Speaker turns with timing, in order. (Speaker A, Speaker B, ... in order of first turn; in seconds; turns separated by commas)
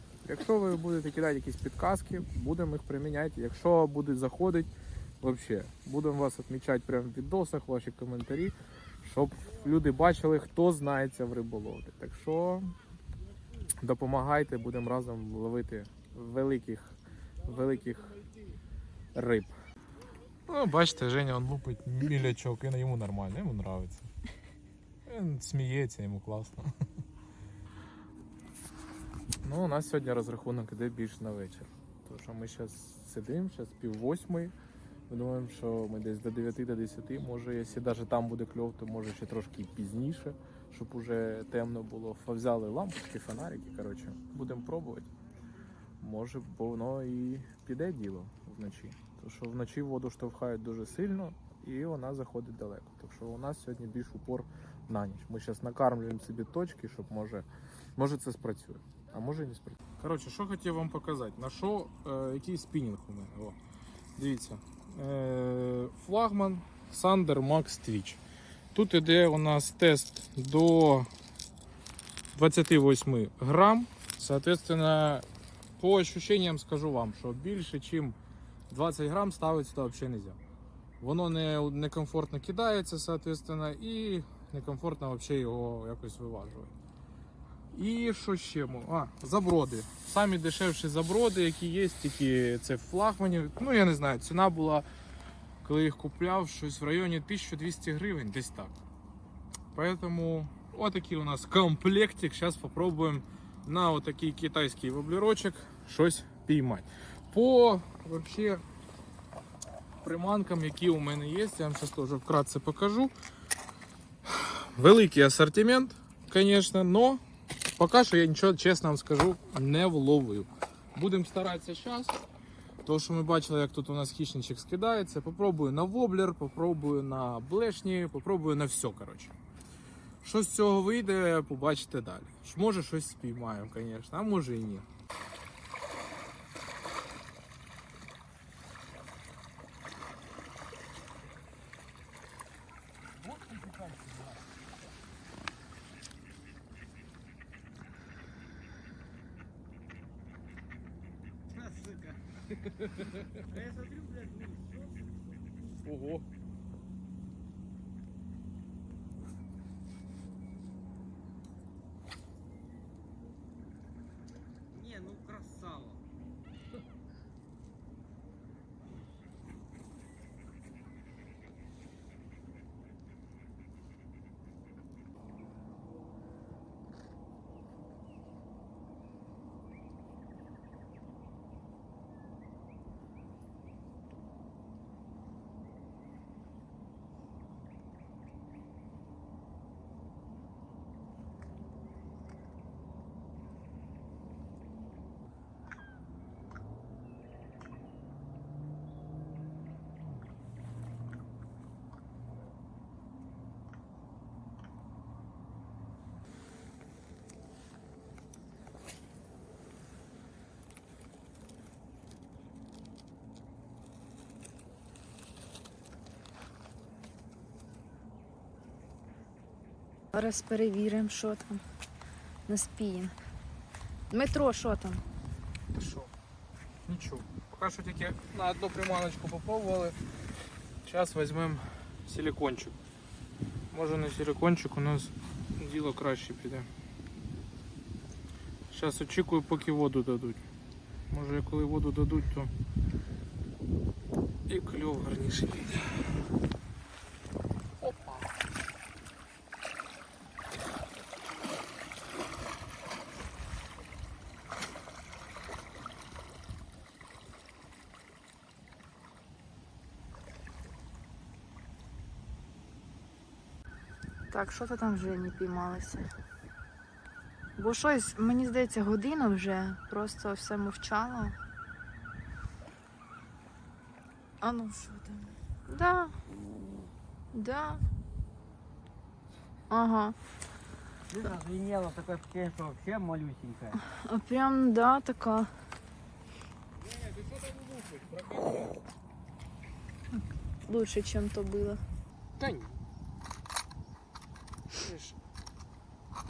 Speaker A: 0.2-4.7, Speaker A: 5.2-12.7, Speaker A: 13.8-18.2, Speaker A: 19.1-19.5, Speaker A: 20.5-24.1, Speaker A: 25.1-26.6, Speaker A: 29.4-34.5, Speaker A: 35.1-45.1, Speaker A: 46.0-57.5, Speaker A: 58.0-63.6, Speaker A: 64.2-68.2, Speaker A: 68.7-71.1, Speaker A: 72.3-75.2, Speaker A: 75.8-78.2, Speaker A: 78.7-80.4, Speaker A: 81.0-86.7, Speaker A: 87.7-94.8, Speaker A: 95.6-98.8, Speaker A: 99.7-108.6, Speaker A: 110.0-113.1, Speaker A: 114.2-117.2, Speaker A: 117.8-122.2, Speaker A: 122.8-129.3, Speaker A: 130.2-134.8, Speaker A: 143.2-144.3, Speaker B: 151.5-152.2, Speaker A: 152.5-153.5, Speaker B: 153.1-155.3, Speaker A: 155.8-156.2, Speaker B: 164.7-166.0, Speaker C: 220.1-221.6, Speaker C: 222.5-223.1, Speaker C: 224.1-225.0, Speaker A: 225.7-226.1, Speaker A: 226.9-230.0, Speaker A: 230.8-232.8, Speaker A: 233.7-236.7, Speaker A: 238.7-240.4, Speaker A: 241.1-242.5, Speaker A: 244.5-245.9, Speaker A: 247.8-248.3, Speaker C: 264.3-266.1, Speaker C: 267.6-271.3, Speaker C: 274.4-276.1, Speaker B: 276.3-276.9, Speaker C: 277.3-277.8, Speaker C: 279.7-280.1, Speaker B: 281.1-283.8, Speaker C: 283.9-285.5, Speaker A: 286.8-288.8, Speaker C: 290.1-291.8, Speaker A: 292.4-292.8, Speaker A: 294.7-295.2